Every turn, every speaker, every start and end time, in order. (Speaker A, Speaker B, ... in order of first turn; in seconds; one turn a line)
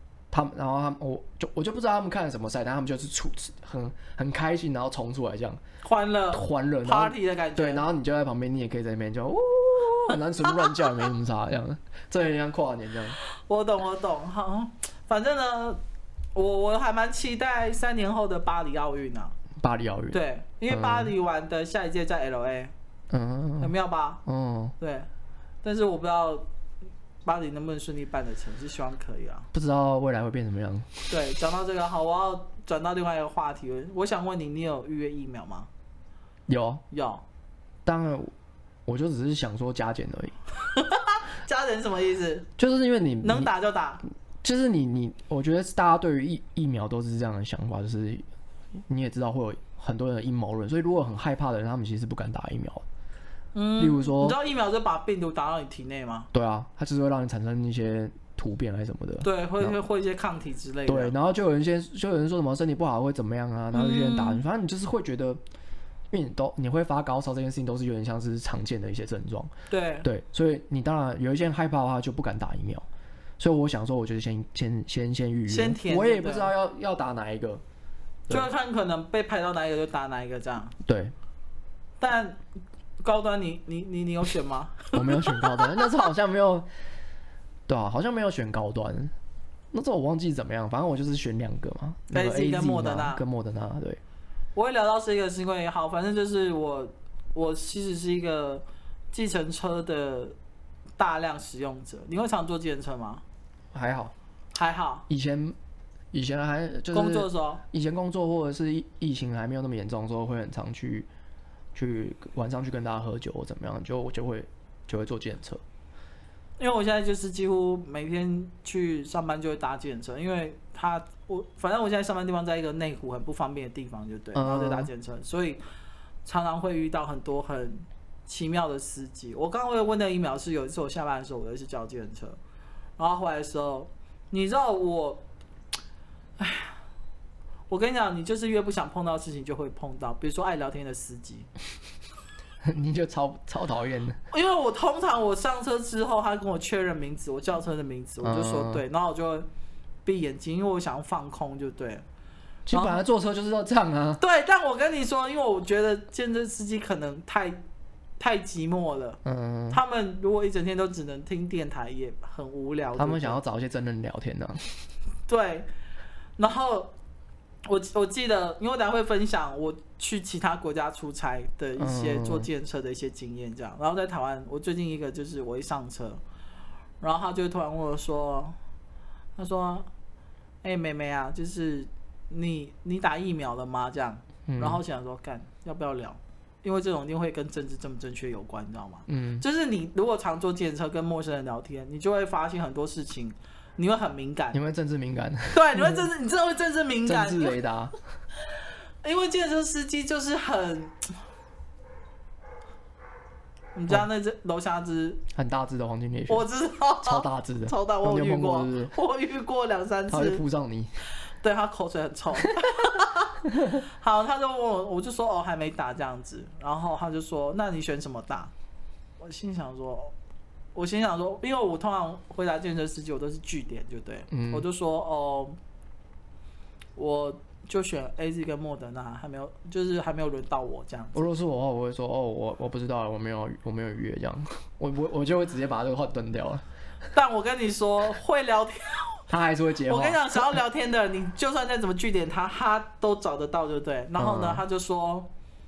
Speaker A: 0.3-5.6
Speaker B: 5.8-7.8
Speaker A: 6.3-13.2
Speaker B: 10.5-10.8
Speaker B: 13.2-15.8
Speaker B: 16.4-19.4
Speaker A: 19.6-21.1
Speaker B: 20.1-22.7
Speaker A: 23.1-23.7
Speaker B: 23.6-24.2
Speaker A: 24.2-24.7
Speaker B: 24.8-25.1
Speaker B: 25.6-26.5
Speaker B: 27.2-29.5
Speaker A: 29.5-31.0
Speaker B: 31.1-35.7
Speaker A: 36.5-36.8
Speaker B: 36.9-37.2
Speaker A: 37.9-38.3
Speaker A: 38.9-40.4
Speaker B: 40.7-42.5
Speaker A: 42.6-43.5
Speaker B: 43.2-44.0
Speaker A: 44.4-48.2
Speaker A: 48.9-52.8
Speaker B: 53.5-56.3
Speaker A: 53.8-54.4
Speaker A: 56.3-59.8
Speaker B: 59.2-61.1
Speaker A: 60.9-65.4
Speaker B: 63.7-64.4
Speaker A: 66.1-69.5
Speaker B: 69.7-70.1
Speaker A: 70.0-72.8
Speaker A: 73.4-77.6
Speaker B: 75.5-76.5
Speaker B: 78.3-80.8
Speaker A: 80.8-81.1
Speaker B: 82.0-82.4
Speaker B: 83.0-86.0
Speaker A: 84.9-86.7
Speaker A: 87.7-89.1
Speaker A: 89.7-94.0
Speaker B: 92.1-93.2
Speaker B: 94.5-100.4
Speaker B: 101.0-103.2
Speaker A: 103.7-104.1
Speaker B: 104.5-105.1
Speaker A: 105.1-105.6
Speaker A: 106.1-111.1
Speaker B: 106.9-107.6
Speaker A: 111.8-115.6
Speaker B: 116.6-125.6
Speaker A: 124.3-124.9
Speaker B: 126.2-132.4
Speaker B: 133.0-135.2
Speaker B: 136.4-136.8
Speaker B: 137.7-141.5
Speaker A: 142.6-144.2
Speaker B: 144.3-149.5
Speaker A: 148.2-148.8
Speaker B: 150.1-152.0
Speaker A: 152.7-154.2
Speaker B: 152.7-153.0
Speaker B: 154.2-157.6
Speaker B: 158.2-159.2
Speaker A: 159.2-159.8
Speaker B: 159.7-163.4
Speaker A: 163.0-164.7
Speaker B: 165.3-165.7
Speaker B: 166.4-166.9
Speaker B: 167.7-176.2
Speaker A: 171.8-172.5
Speaker B: 177.0-178.6
Speaker B: 179.4-179.9
Speaker B: 180.6-194.6
Speaker A: 184.5-184.8
Speaker A: 189.1-189.4
Speaker A: 194.5-196.1
Speaker B: 195.5-197.6
Speaker A: 197.1-197.9
Speaker B: 199.0-201.1
Speaker B: 203.8-205.2
Speaker A: 205.3-206.5
Speaker B: 206.3-210.4
Speaker A: 207.0-208.9
Speaker A: 210.1-210.9
Speaker B: 211.4-218.5
Speaker B: 219.2-220.1
Speaker B: 220.8-225.6
Speaker A: 224.3-224.7
Speaker B: 227.0-231.3
Speaker A: 231.2-236.6
Speaker B: 237.1-239.2
Speaker A: 239.3-240.6
Speaker B: 239.8-245.3
Speaker A: 244.2-244.6